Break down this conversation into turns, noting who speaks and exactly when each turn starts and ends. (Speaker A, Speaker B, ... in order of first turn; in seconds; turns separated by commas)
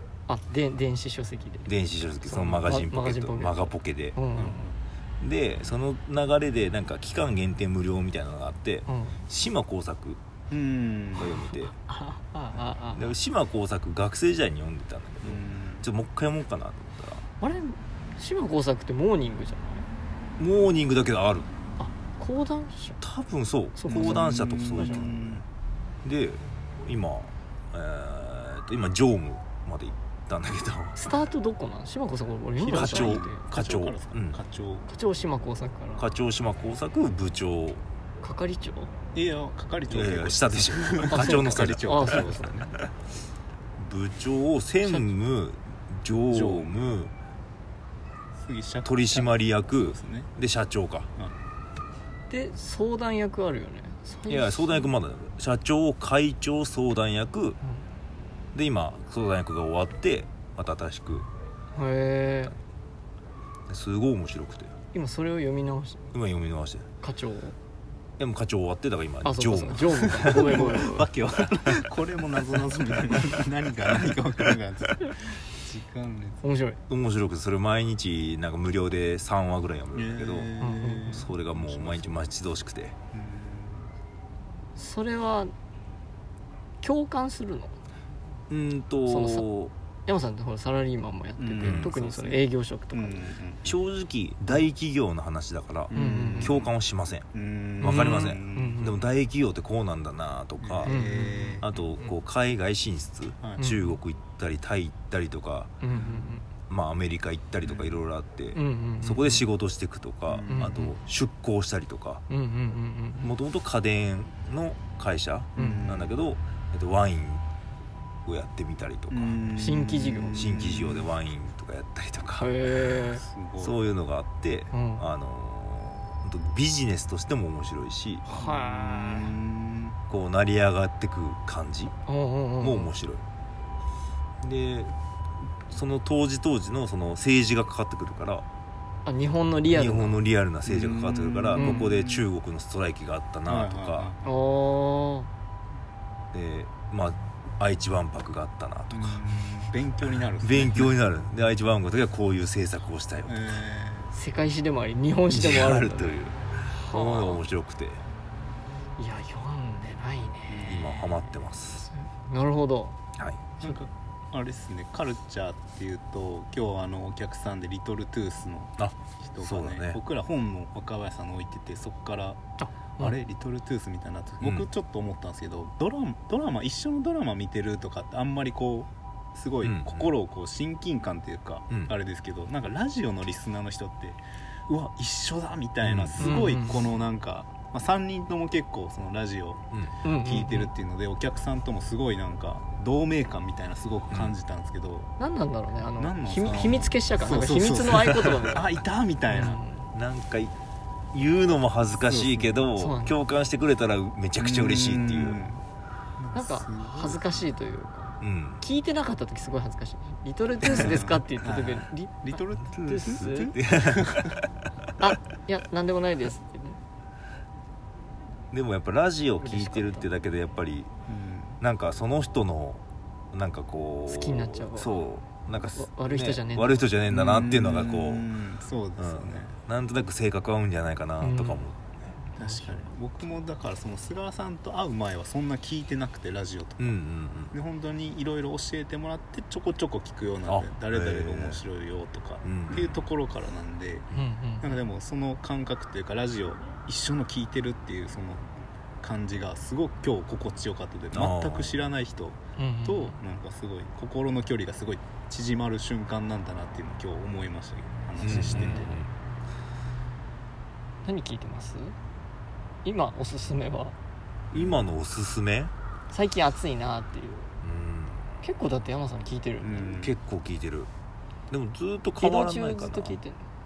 Speaker A: 0.3-1.7, Speaker B: 1.7-4.2, Speaker A: 2.2-4.7, Speaker C: 4.3-4.8, Speaker B: 5.2-10.2, Speaker A: 8.9-9.2, Speaker C: 10.5-11.4, Speaker B: 11.2-11.7, Speaker A: 11.5-13.1, Speaker B: 12.9-17.3, Speaker C: 15.2-15.9, Speaker A: 17.4-19.9, Speaker B: 20.4-21.5, Speaker A: 21.8-23.0, Speaker B: 23.0-25.4, Speaker A: 23.8-25.1, Speaker C: 23.9-25.4, Speaker B: 26.0-31.0, Speaker A: 30.9-33.5, Speaker C: 32.6-34.9, Speaker B: 32.7-34.4, Speaker A: 34.9-36.0, Speaker B: 36.0-37.8, Speaker A: 38.2-38.9, Speaker C: 39.1-42.7, Speaker B: 39.9-42.9, Speaker A: 41.1-42.7, Speaker B: 43.8-47.1, Speaker A: 44.8-45.1, Speaker C: 46.3-46.8, Speaker C: 48.4-50.3, Speaker B: 48.8-51.1, Speaker A: 52.3-54.9, Speaker B: 54.3-57.6, Speaker B: 58.5-61.3, Speaker A: 61.7-62.5, Speaker B: 63.7-64.7, Speaker A: 64.9-66.1, Speaker B: 66.1-66.9, Speaker A: 67.0-67.5, Speaker B: 68.2-70.9, Speaker A: 69.2-71.1, Speaker C: 70.2-76.4, Speaker A: 76.4-76.8, Speaker B: 76.9-83.0, Speaker C: 79.9-82.2, Speaker A: 80.6-81.2, Speaker C: 83.1-83.9, Speaker A: 84.8-85.5, Speaker A: 86.8-87.8, Speaker B: 88.5-89.7, Speaker A: 89.1-89.5, Speaker A: 90.1-93.3, Speaker C: 91.4-93.7, Speaker B: 91.6-91.9, Speaker B: 93.6-97.3, Speaker C: 95.9-96.7, Speaker A: 95.9-96.6, Speaker C: 97.3-98.9, Speaker B: 97.8-101.0, Speaker A: 97.8-99.0, Speaker C: 100.6-101.7, Speaker A: 100.8-102.1, Speaker B: 101.6-105.7, Speaker A: 103.6-104.0, Speaker A: 105.8-106.5, Speaker C: 105.9-106.3, Speaker B: 106.7-112.2, Speaker C: 107.6-108.0, Speaker A: 108.5-109.4, Speaker C: 110.3-110.9, Speaker A: 110.5-110.9, Speaker A: 112.3-113.3, Speaker B: 113.2-117.4, Speaker A: 115.5-115.9, Speaker C: 115.5-116.2, Speaker B: 118.2-119.4, Speaker C: 119.1-121.1, Speaker A: 119.6-120.5, Speaker B: 120.3-122.5, Speaker A: 122.4-123.2, Speaker C: 123.2-123.8, Speaker B: 123.6-128.2, Speaker A: 124.7-125.0, Speaker A: 128.3-129.3, Speaker C: 128.3-130.0, Speaker B: 130.1-131.9, Speaker A: 132.1-132.9, Speaker B: 132.6-133.2, Speaker B: 134.4-134.9, Speaker B: 135.7-138.4, Speaker A: 139.1-140.2, Speaker B: 139.7-144.1, Speaker C: 140.6-142.3, Speaker A: 141.5-141.8, Speaker C: 143.4-144.3, Speaker A: 144.2-145.3, Speaker B: 146.3-149.2, Speaker C: 148.9-150.9, Speaker B: 150.4-153.5, Speaker C: 153.2-154.1, Speaker A: 154.1-156.2, Speaker B: 155.3-158.0, Speaker A: 156.7-157.4, Speaker A: 159.0-161.2, Speaker C: 160.5-161.0, Speaker B: 160.7-161.9, Speaker A: 161.8-163.0, Speaker B: 163.2-163.4, Speaker C: 163.6-172.4, Speaker B: 168.8-170.0, Speaker A: 172.6-173.2, Speaker C: 173.0-189.6, Speaker B: 174.4-174.7, Speaker B: 179.6-180.1, Speaker B: 185.8-186.4, Speaker A: 186.2-186.8, Speaker A: 190.0-190.7, Speaker C: 190.1-195.1, Speaker A: 195.2-198.7, Speaker C: 196.0-199.6, Speaker A: 199.3-199.9, Speaker B: 199.9-200.5, Speaker B: 201.1-205.4, Speaker C: 202.1-202.7, Speaker A: 202.8-203.2, Speaker C: 204.4-205.6, Speaker C: 206.2-207.5, Speaker A: 206.3-213.6, Speaker B: 208.2-208.6, Speaker C: 210.6-214.4, Speaker B: 212.7-214.5, Speaker A: 215.0-216.8, Speaker B: 218.5-220.9, Speaker A: 219.4-220.1, Speaker C: 221.1-221.6, Speaker B: 221.6-228.3, Speaker A: 224.1-224.9, Speaker A: 225.8-227.5, Speaker C: 227.1-229.5, Speaker B: 229.0-232.1, Speaker A: 231.2-231.7, Speaker A: 232.2-232.9, Speaker C: 232.4-236.9, Speaker B: 236.8-237.5, Speaker C: 237.5-244.1, Speaker B: 240.5-241.6, Speaker B: 242.4-242.9, Speaker A: 244.1-244.8, Speaker C: 244.6-248.5, Speaker C: 249.0-259.0, Speaker B: 251.1-251.8, Speaker A: 252.6-253.2, Speaker B: 258.2-259.1, Speaker A: 258.2-259.0, Speaker A: 261.0-261.9, Speaker A: 262.8-263.9, Speaker B: 264.5-265.7, Speaker C: 264.5-264.9, Speaker A: 266.1-267.5, Speaker B: 267.6-268.3, Speaker A: 268.4-269.9, Speaker C: 269.6-270.2, Speaker B: 270.0-270.9, Speaker B: 271.5-273.2, Speaker A: 272.2-273.4